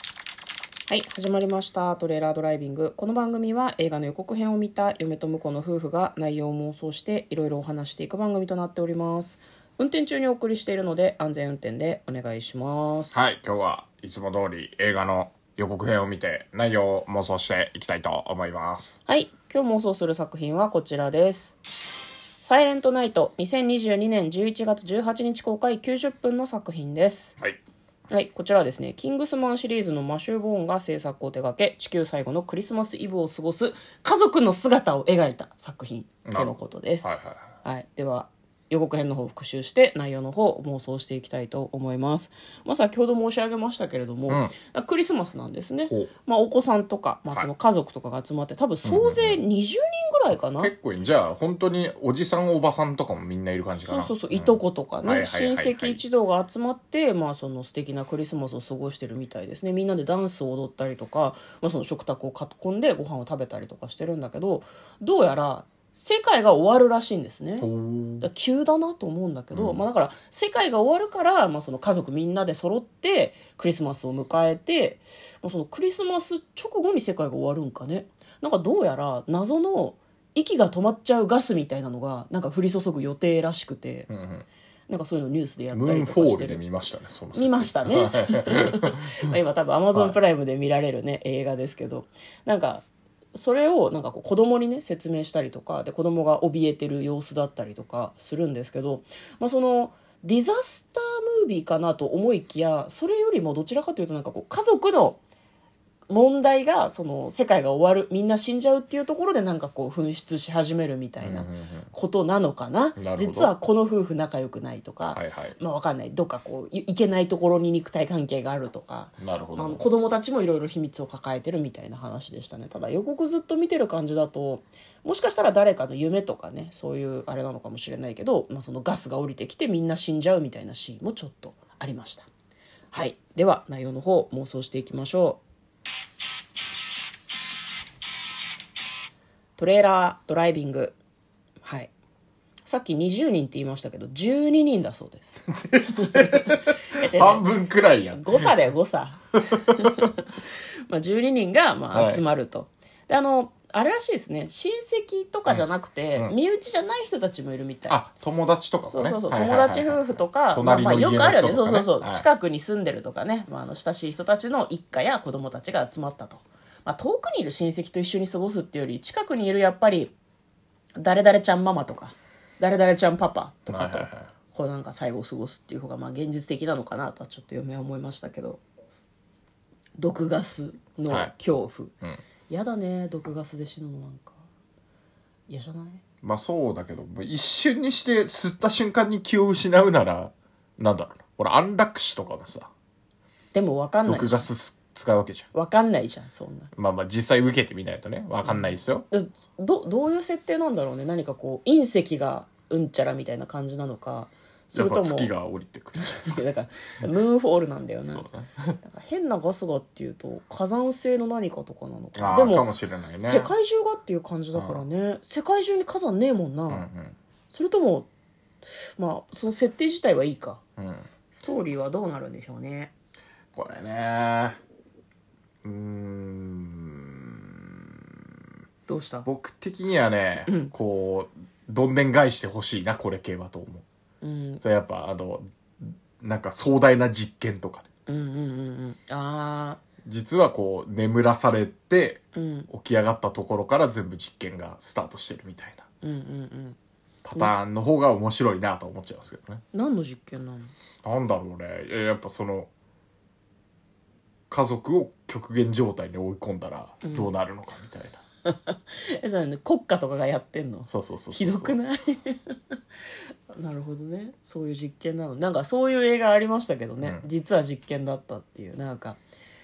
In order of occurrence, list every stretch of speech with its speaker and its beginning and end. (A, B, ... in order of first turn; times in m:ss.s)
0:00.9-0:13.1 A
0:13.1-0:19.0 B
0:19.1-0:21.6 A
0:22.4-0:27.4 A
0:28.1-0:37.1 A
0:36.2-0:37.5 B
0:37.6-0:50.7 A
0:44.3-0:44.5 B
0:48.8-0:49.4 B
0:50.6-0:56.0 B
0:53.8-1:07.7 A
1:07.6-1:08.3 B
1:08.2-1:24.1 A
1:09.5-1:09.8 B
1:24.1-1:24.5 B
1:24.9-1:26.6 A
1:25.7-1:29.3 B
1:27.3-1:45.2 A
1:46.1-2:12.3 A
1:51.2-1:51.9 B
1:53.0-1:53.5 B
1:55.1-1:55.6 B
1:59.2-1:59.9 B
2:12.9-2:15.4 A
2:19.6-2:21.0 A
2:21.6-2:21.9 A
2:22.6-2:27.5 A
2:25.5-2:28.5 B
2:28.1-2:38.0 A
2:29.5-2:30.1 B
2:31.9-2:32.2 B
2:35.5-2:36.3 B
2:37.9-2:42.3 B
2:38.8-2:50.1 A
2:51.0-2:58.6 A
2:53.7-2:54.3 B
3:00.0-3:01.9 A
3:02.5-3:04.4 A
3:05.5-3:06.0 A
3:06.2-3:12.7 B
3:13.5-3:14.5 A
3:14.1-3:15.5 B
3:15.5-3:16.7 A
3:16.7-3:19.1 B
3:18.4-3:25.3 A
3:24.8-3:26.4 B
3:26.0-3:28.2 A
3:28.1-3:28.8 B
3:28.8-3:32.7 A
3:32.2-3:33.5 B
3:33.2-3:36.8 A
3:34.5-3:34.8 B
3:36.7-3:37.2 B
3:37.5-3:38.1 A
3:39.0-3:40.6 A
3:40.8-3:41.1 B
3:41.3-3:42.9 A
3:43.5-3:44.6 B
3:45.6-3:48.2 B
3:48.9-3:49.3 A
3:49.2-3:53.8 B
3:50.5-3:50.7 A
3:54.2-3:54.6 A
3:54.6-3:57.8 B
3:58.1-3:59.8 A
4:00.0-4:05.8 B
4:02.3-4:02.7 A
4:06.0-4:06.8 A
4:07.2-4:09.6 B
4:09.7-4:10.7 A
4:11.0-4:12.7 B
4:14.5-4:18.2 B
4:17.0-4:17.3 A
4:18.4-4:22.8 A
4:20.9-4:21.8 B
4:23.5-4:29.2 A
4:27.0-4:27.3 B